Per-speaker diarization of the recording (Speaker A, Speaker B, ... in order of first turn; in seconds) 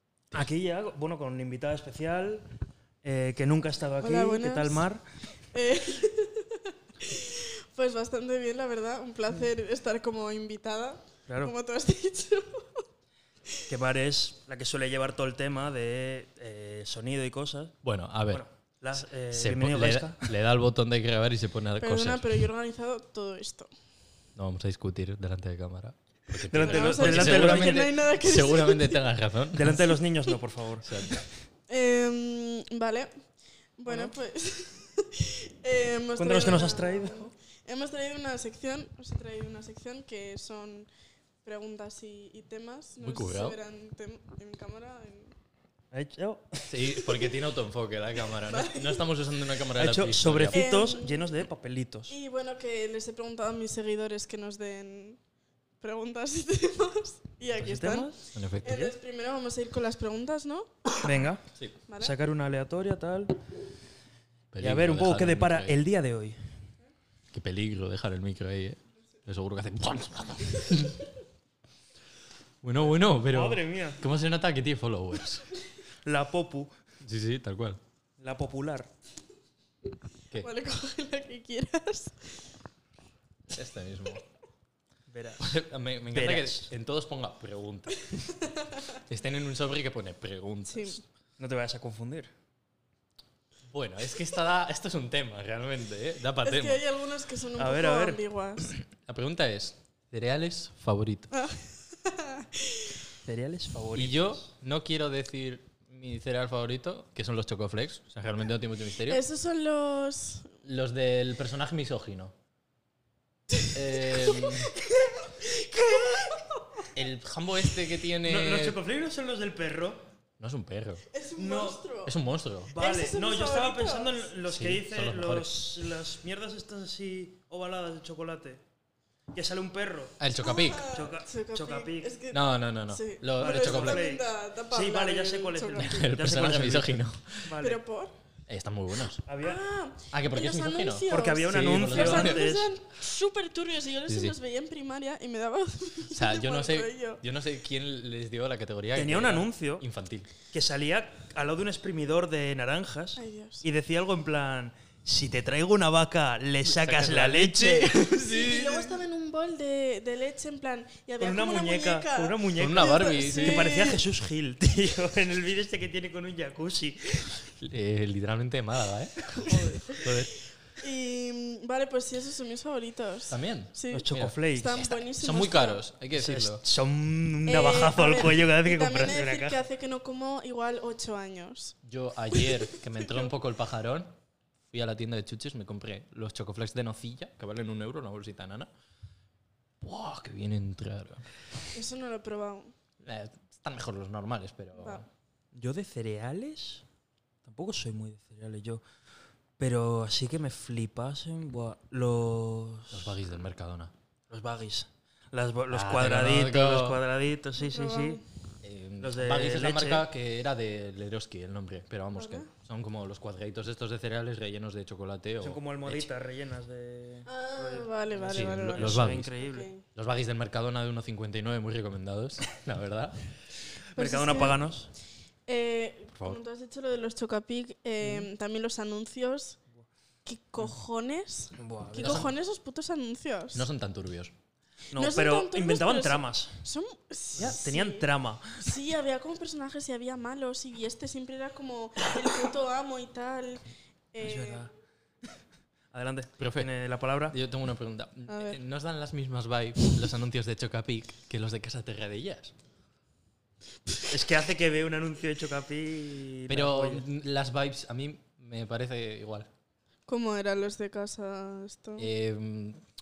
Speaker A: 0.3-2.5, 3.0-5.0, 11.3-11.5, 13.7-20.3, 26.5-27.9, 29.5-31.2, 33.9-34.1, 36.2-37.3, 45.9-47.0, 49.8-52.1, 57.6-59.0, 61.0-61.4, 62.0-63.4, 64.6-66.6, 72.9-74.0, 76.0-76.7, 78.2-78.9, 85.1-85.5, 86.1-86.7, 91.4-92.3, 97.6-98.2, 103.2-104.5, 118.2-120.0, 121.3-121.8, 122.7-128.6, 129.3-130.2, 130.8-132.1, 133.3-137.8, 139.2-139.6, 141.1-142.7, 148.9-149.8, 150.5-158.1, 161.2-167.4, 173.9-174.8, 176.2-179.6, 195.5-196.8, 197.4-198.8, 199.6-203.2, 204.3-208.2, 209.0-210.1, 215.4-219.7, 223.9-224.9, 228.0-228.3, 231.6-232.3, 234.9-236.6, 237.4-238.7, 244.2-244.7, 245.9-247.4, 254.1-257.0
Speaker B: 4.0-4.8, 5.5-12.8, 21.8-23.7, 26.6-29.1, 31.7-33.2, 33.8-40.9, 41.4-45.3, 48.4-49.0, 50.5-51.4, 52.1-55.2, 55.8-61.0, 61.9-62.1, 80.4-82.5, 88.5-88.8, 90.7-91.0, 96.4-98.7, 101.3-102.9, 109.1-110.5, 114.1-116.9, 121.1-122.1, 122.7-124.3, 130.4-136.0, 137.6-138.1, 139.4-147.2, 153.2-153.6, 157.9-164.0, 169.5-170.2, 170.7-175.8, 177.5-181.8, 182.3-183.3, 191.7-192.7, 194.8-195.0, 207.6-208.2, 212.1-212.5, 217.3-219.8, 223.9-224.6, 225.5-229.6, 230.2-233.7, 234.9-238.1, 238.6-244.7, 248.3-248.6, 260.1-262.1
Speaker C: 17.8-18.4, 19.3-22.4, 24.4-29.8, 30.8-31.2, 43.0-43.6, 46.7-50.7, 58.3-58.8, 64.5-65.8, 67.3-71.0, 72.6-75.5, 77.0-77.8, 83.5-84.2, 85.4-88.3, 89.0-91.0, 93.7-96.8, 98.7-101.3, 103.9-109.2, 110.6-112.3, 113.7-114.8, 116.9-118.8, 120.4-121.0, 122.0-122.7, 124.5-125.6, 130.2-131.0, 132.3-134.0, 135.8-137.4, 138.5-139.2, 140.1-142.5, 144.1-144.4, 146.1-150.3, 156.6-159.0, 162.6-163.8, 167.6-170.3, 173.3-176.6, 181.8-184.1, 184.7-188.7, 189.8-191.3, 193.0-195.1, 202.9-203.9, 205.7-207.0, 208.6-216.1, 218.3-219.3, 219.9-223.2, 232.0-232.3, 233.5-234.3, 246.4-246.7, 247.3-252.5, 256.5-259.5, 262.0-262.8